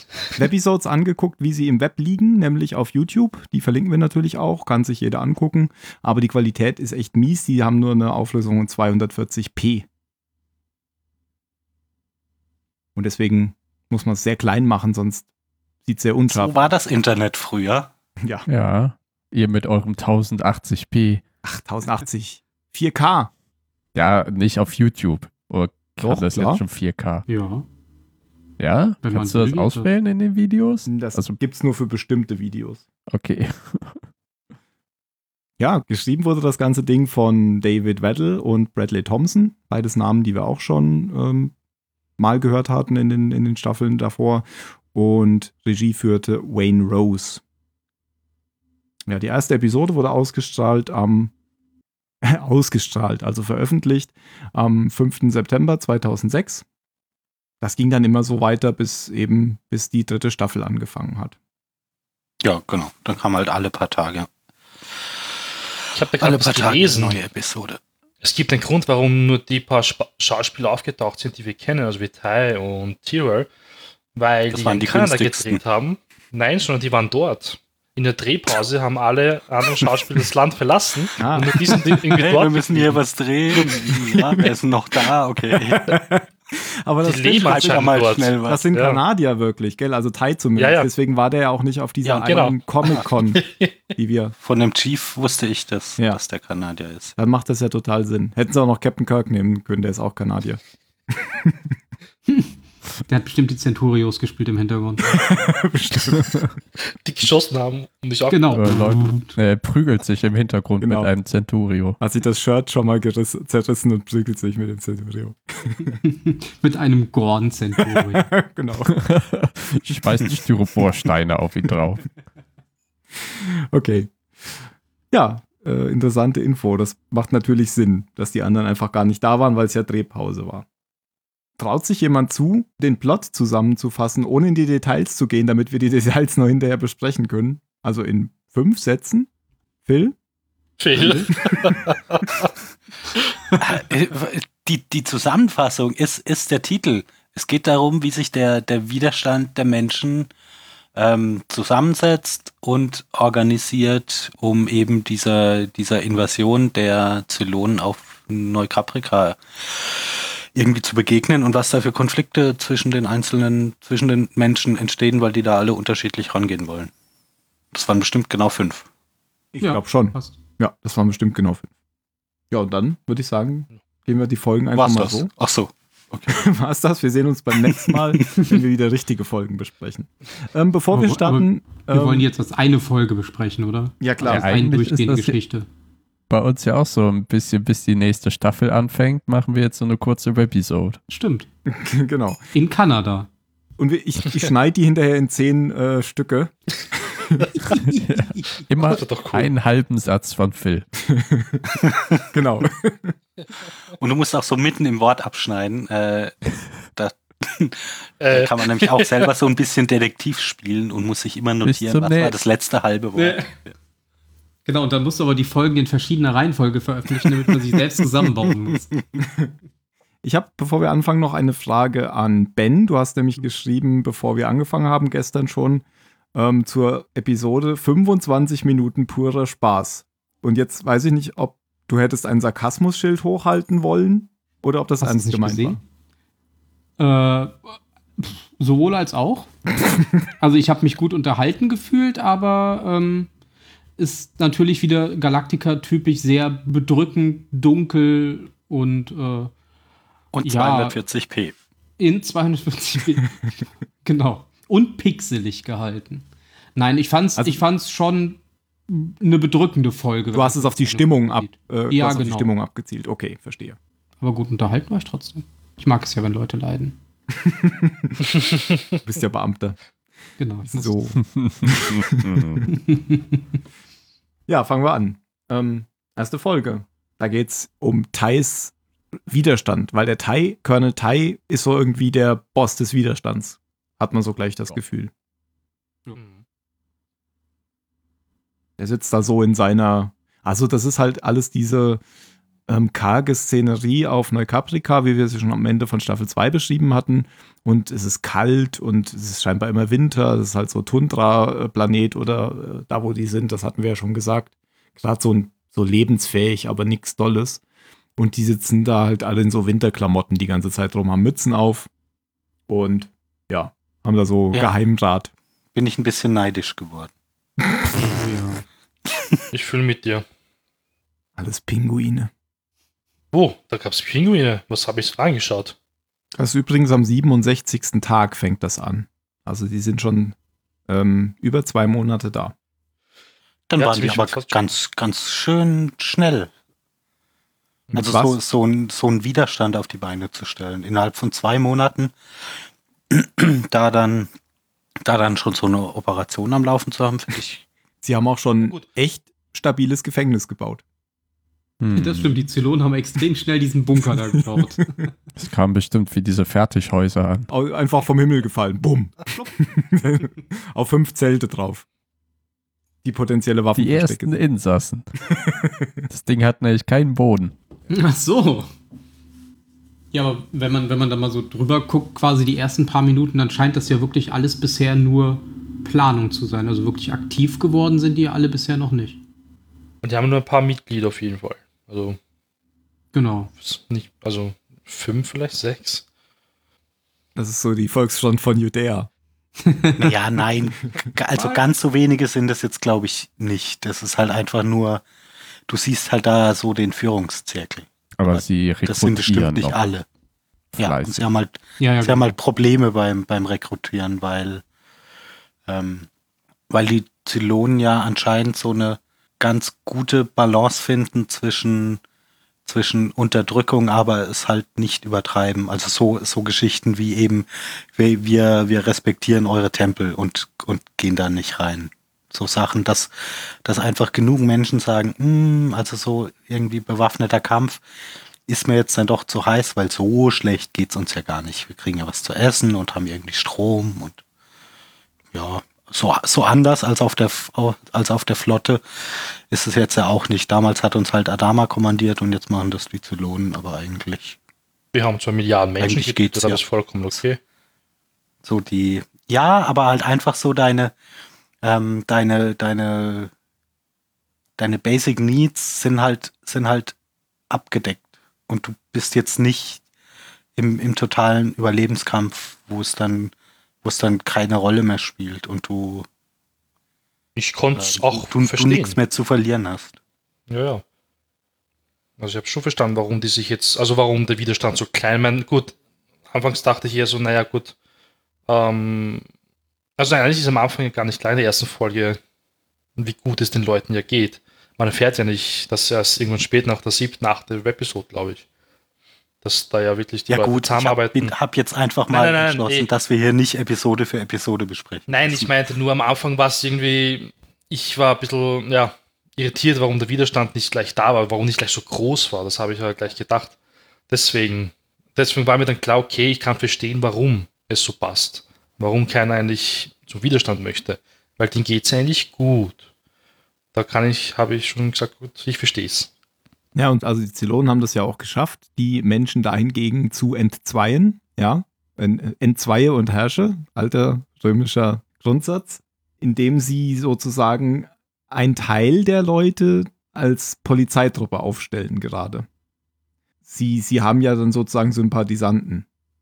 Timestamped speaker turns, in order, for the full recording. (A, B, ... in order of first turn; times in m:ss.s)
0:00.3-0:09.8 A
0:13.0-0:15.3 A
0:15.8-0:16.6 A
0:16.3-0:17.9 B
0:18.2-0:18.5 A
0:18.5-0:21.2 C
0:21.4-0:23.3 A
0:23.9-0:27.2 C
0:26.0-0:26.6 A
0:27.3-0:27.6 D
0:28.6-0:31.4 C
0:29.0-0:29.9 D
0:30.9-0:32.8 A
0:33.1-0:34.0 C
0:35.6-0:41.5 A
0:42.2-0:47.4 A
0:49.1-0:51.3 A
0:52.2-0:56.6 A
0:57.6-1:01.4 A
1:02.4-1:04.3 B
1:05.9-1:07.2 E
1:06.1-1:07.8 B
1:08.2-1:13.5 E
1:14.1-1:22.9 E
1:14.5-1:15.6 B
1:21.2-1:21.8 A
1:21.9-1:26.0 B
1:23.9-1:24.5 A
1:25.5-1:27.9 A
1:27.0-1:29.0 E
1:27.4-1:28.7 B
1:28.4-1:34.3 A
1:30.6-1:30.9 E
1:32.0-1:33.7 E
1:34.4-1:37.2 B
1:37.2-1:41.8 A
1:43.1-1:45.2 D
1:45.1-1:46.5 A
1:47.0-1:48.6 E
1:48.3-1:49.3 D
1:48.5-1:52.0 C
1:50.8-1:51.1 A
1:52.0-1:56.0 A
1:56.0-1:58.3 D
1:57.8-1:58.9 A
1:58.9-2:02.0 C
2:03.2-2:10.6 A
2:11.6-2:19.3 A
2:19.8-2:20.1 A
2:20.8-2:22.5 E
2:21.0-2:21.3 D
2:21.3-2:21.7 A
2:23.6-2:30.3 B
2:30.9-2:46.9 B
2:47.7-2:48.8 B
2:49.5-2:51.7 A
2:49.6-2:50.4 D
2:52.5-2:55.3 A
2:54.7-2:56.4 B
2:56.3-3:02.3 A
3:00.9-3:05.7 D
3:04.0-3:04.6 A
3:04.2-3:05.4 C
3:06.3-3:11.0 C
3:11.1-3:11.5 D
3:11.6-3:12.5 A
3:12.5-3:13.3 D
3:13.8-3:17.5 A
3:17.7-3:20.9 C
3:18.9-3:19.5 E
3:21.0-3:21.8 A
3:21.8-3:22.2 B
3:22.3-3:23.1 A
3:24.0-3:33.7 B
3:28.2-3:29.3 E
3:31.6-3:32.4 C
3:33.1-3:33.5 D
3:34.6-3:38.9 D
3:39.2-3:39.5 A
3:40.2-3:55.8 A
3:55.0-3:55.8 D
3:57.0-3:59.5 D
4:00.4-4:03.3 D
4:04.0-4:09.5 D
4:10.3-4:11.6 B
4:10.4-4:11.0 D
4:12.0-4:22.5 D
4:17.4-4:17.6 A
4:20.3-4:23.8 A
4:24.2-4:27.0 D
4:27.3-4:28.3 A
4:29.0-4:29.8 A
4:30.4-4:30.9 D
4:30.7-4:32.6 A
4:31.2-4:32.6 C
4:32.7-4:33.4 D
4:34.5-4:38.7 A
4:39.3-4:45.1 A
4:46.2-4:46.4 E
4:48.8-4:52.0 A
4:52.7-5:07.6 A
5:08.2-5:11.9 A
5:12.7-5:15.3 A
5:15.7-5:17.1 B
5:18.0-5:18.6 D
5:19.5-5:20.2 E
5:21.4-5:22.3 A
5:23.3-5:25.7 E
5:26.4-5:30.4 A
5:30.9-5:32.5 A
5:33.7-5:36.5 B
5:33.8-5:34.7 E
5:37.9-5:42.1 B
5:38.0-5:38.4 A
5:43.1-5:44.3 B
5:45.0-5:47.6 B
5:48.0-5:50.8 A
5:51.8-5:52.3 C
5:51.9-5:55.1 D
5:54.3-5:54.7 A
5:55.4-5:57.5 C
5:57.5-6:01.8 A
6:03.0-6:04.4 A
6:03.7-6:05.1 C
6:05.2-6:06.0 A
6:06.1-6:07.5 C
6:07.9-6:08.7 D
6:10.1-6:19.2 D
6:20.0-6:22.2 E
6:23.1-6:23.5 D
6:23.6-6:26.0 E
6:27.4-6:29.1 A
6:30.0-6:35.0 B
6:35.7-6:40.0 B
6:38.2-6:39.8 C
6:40.7-6:41.3 C
6:40.8-6:44.6 B
6:41.8-6:42.3 D
6:45.7-6:46.1 B
6:46.7-6:52.0 B
6:52.6-7:07.8 B
7:08.5-7:14.2 B
7:15.3-7:24.4 B
7:24.9-7:27.4 E
7:25.8-7:26.6 B
7:28.4-7:30.9 B
7:31.6-7:33.3 B
7:34.6-7:36.9 B
7:37.5-7:39.8 B
7:40.6-7:46.1 B
7:47.4-7:49.0 E
7:47.7-7:49.9 B
7:50.5-7:50.8 E
7:52.2-7:55.8 E
7:56.3-7:57.7 E
7:58.5-7:59.2 E
8:00.0-8:02.2 E
8:03.0-8:08.4 E
8:09.4-8:11.3 E
8:10.3-8:15.5 B
8:12.1-8:12.9 E
8:15.1-8:23.5 E
8:24.1-8:32.8 E
8:33.7-8:36.1 E
8:36.7-8:52.4 A
8:53.4-8:55.8 A